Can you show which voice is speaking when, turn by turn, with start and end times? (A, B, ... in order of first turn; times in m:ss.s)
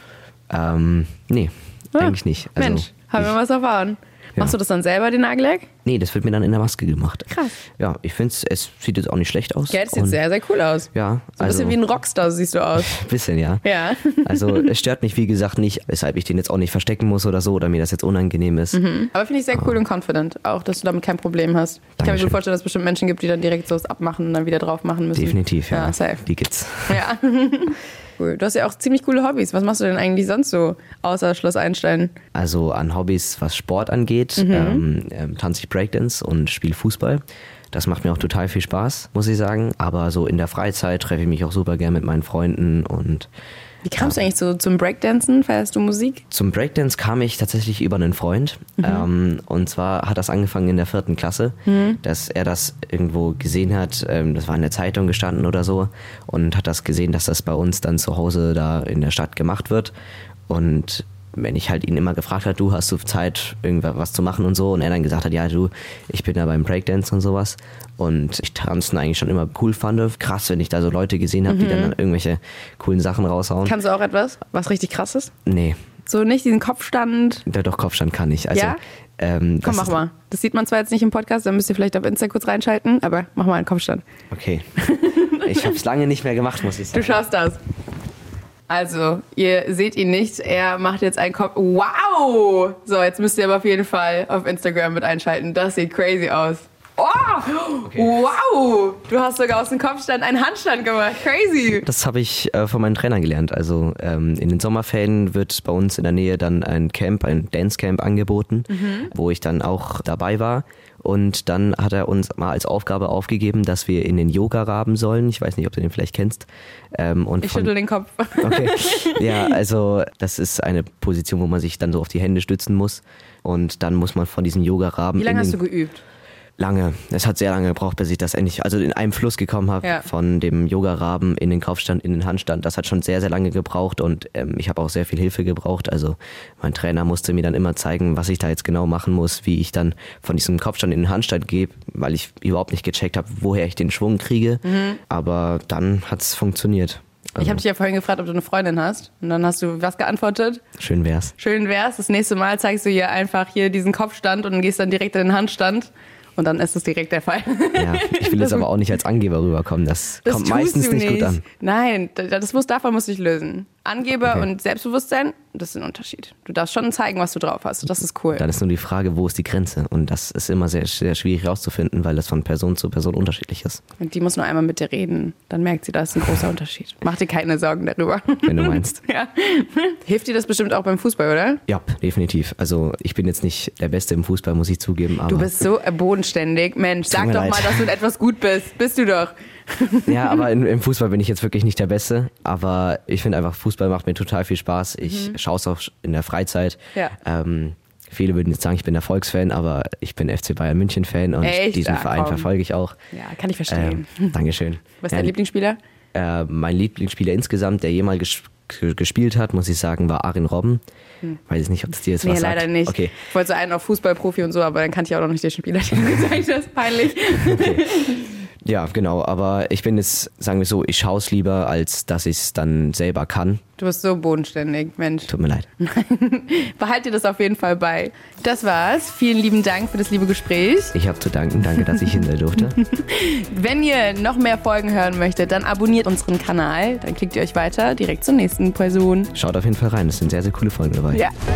0:00.5-0:03.3 A
0:01.9-0:05.7 B
0:05.8-0:10.2 A
0:07.3-0:07.6 B
0:09.7-0:13.1 B
0:10.9-0:11.8 A
0:12.8-0:13.6 A
0:13.6-0:14.7 B
0:14.2-0:18.8 A
0:18.7-0:26.2 B
0:22.0-0:22.4 A
0:25.1-0:27.0 A
0:26.9-0:32.1 B
0:32.3-0:43.3 A
0:34.4-0:34.8 B
0:43.8-0:46.2 B
0:44.0-0:44.2 A
0:46.3-0:59.9 A
0:48.8-0:49.0 B
0:51.7-0:52.0 B
1:00.5-1:13.8 A
1:11.4-1:12.0 B
1:13.6-1:15.3 B
1:15.4-1:15.8 A
1:16.1-1:17.4 B
1:17.5-1:20.0 A
1:18.5-1:18.8 B
1:19.6-1:24.0 B
1:24.3-1:24.7 A
1:24.8-1:25.8 B
1:25.4-1:27.2 A
1:26.9-1:27.6 B
1:28.7-1:41.8 B
1:37.8-1:38.2 A
1:41.8-1:57.7 A
1:48.7-1:49.1 B
1:57.4-1:59.5 B
1:58.4-2:05.6 A
2:05.2-2:06.0 B
2:06.6-2:27.6 A
2:24.6-2:25.0 B
2:27.4-2:30.6 B
2:30.8-2:31.3 A
2:31.4-2:38.7 B
2:37.8-2:41.4 A
2:40.2-2:48.4 B
2:48.3-2:53.8 A
2:54.0-3:01.6 B
2:58.4-2:59.0 A
3:01.7-3:05.6 A
3:05.3-3:10.4 B
3:07.1-3:07.9 A
3:10.1-3:22.9 A
3:15.0-3:15.3 B
3:21.4-3:22.5 B
3:23.1-3:24.4 B
3:23.7-3:25.3 A
3:25.0-3:25.8 B
3:26.1-3:30.8 A
3:31.5-3:33.2 A
3:32.2-3:38.4 B
3:37.3-3:37.9 A
3:38.6-3:43.6 A
3:43.8-3:50.9 B
3:45.3-3:45.7 A
3:50.9-3:52.8 A
3:51.8-3:59.3 B
3:59.3-4:01.2 A